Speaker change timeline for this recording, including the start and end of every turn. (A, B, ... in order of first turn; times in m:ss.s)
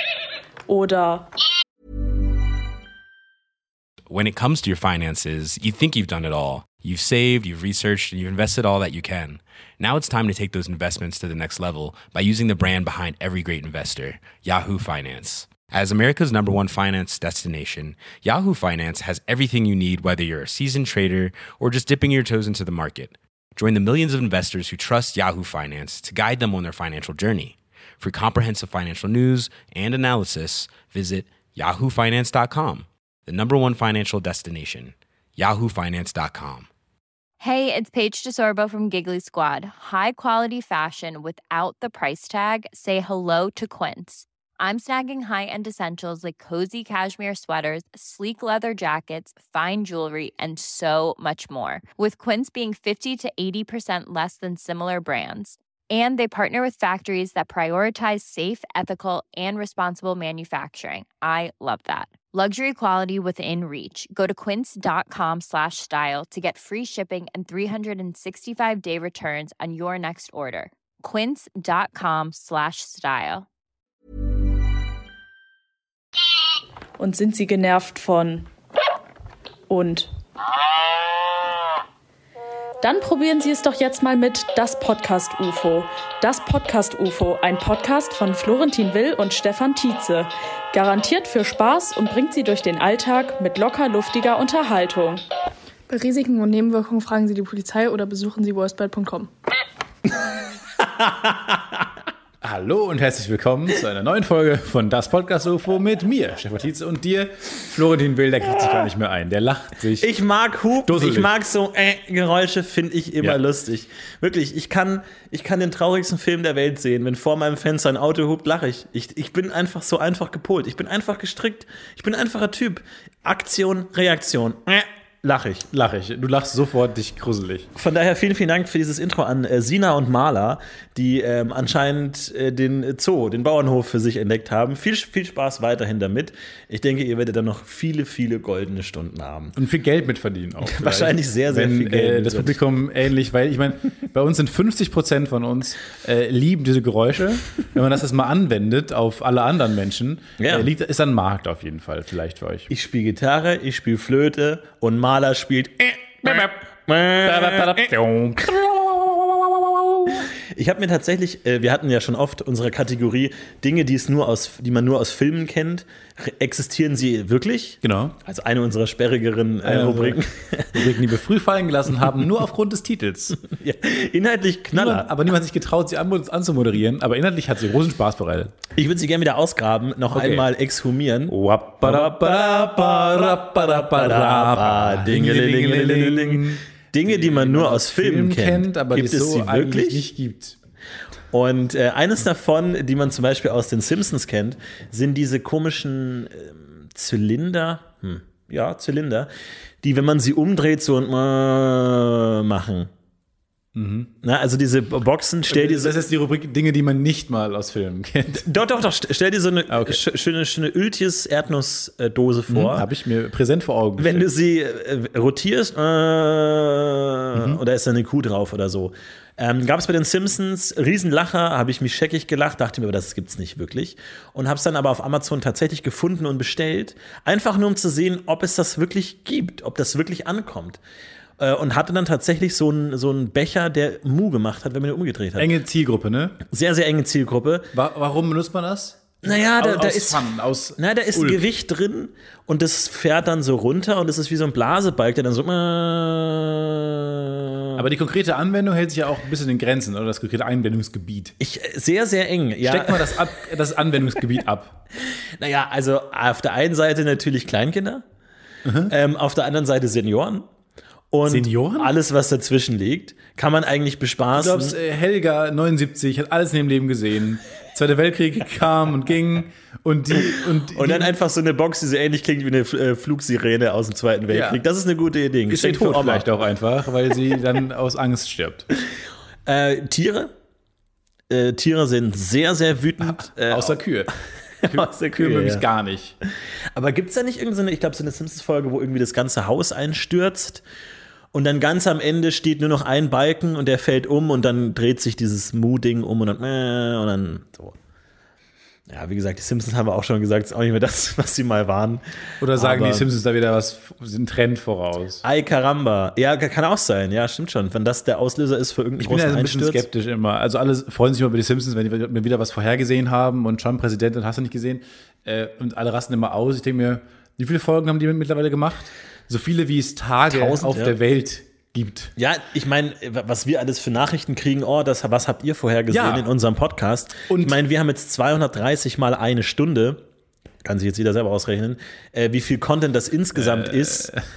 0:00.7-0:01.3 A
0:04.1-0:36.7 B
0:37.4-1:13.5 C
1:17.0-1:18.5 A
1:19.7-1:20.1 A
1:22.8-1:35.2 A
1:35.9-1:39.3 D
1:40.8-1:41.8 E
1:42.4-1:50.1 F
1:50.0-2:05.6 E
1:50.8-1:51.3 F
2:05.7-2:07.7 F
2:07.7-2:19.6 E
2:19.6-2:32.7 F
2:20.6-2:22.6 E
2:30.4-2:30.7 E
2:32.7-2:37.9 E
2:36.2-2:36.6 F
2:37.2-2:40.3 F
2:40.4-2:50.8 E
2:47.8-2:48.2 F
2:49.6-2:50.2 F
2:50.7-2:53.4 F
2:53.5-2:55.1 E
2:54.7-2:58.5 F
2:58.8-3:10.0 E
3:00.1-3:00.5 F
3:01.3-3:10.6 F
3:11.3-3:19.3 E
3:19.8-3:22.9 E
3:23.7-3:24.1 F
3:24.2-3:26.0 E
3:25.5-3:28.4 F
3:28.3-3:32.8 E
3:29.7-3:30.0 F
3:32.5-3:34.3 F
3:34.0-3:50.8 E
3:37.3-3:37.6 F
3:51.4-3:55.6 E
3:55.4-3:56.4 F
3:56.5-3:57.7 E
3:57.7-4:01.4 F
3:59.2-4:07.8 E
4:07.8-4:11.3 F
4:11.4-4:13.2 E
4:12.6-4:14.8 F
4:15.4-4:18.0 E
4:18.6-4:18.9 F
4:18.9-4:20.4 E
4:21.1-4:24.8 E
4:21.2-4:21.9 F
4:24.3-4:31.1 F
4:30.2-4:36.3 E
4:34.3-4:34.6 F
4:35.5-4:38.7 F
4:39.4-4:40.3 E
4:41.3-4:43.8 E
4:43.3-4:46.2 F
4:44.6-4:45.6 E
4:46.7-4:50.6 E
4:51.3-4:57.8 E
4:58.9-5:03.1 E
5:02.4-5:05.2 F
5:05.2-5:09.8 E
5:09.0-5:22.1 F
5:20.3-5:20.9 E
5:22.2-5:30.0 E
5:25.9-5:26.3 F
5:27.3-5:27.6 F
5:30.6-5:34.1 E
5:33.3-5:34.2 F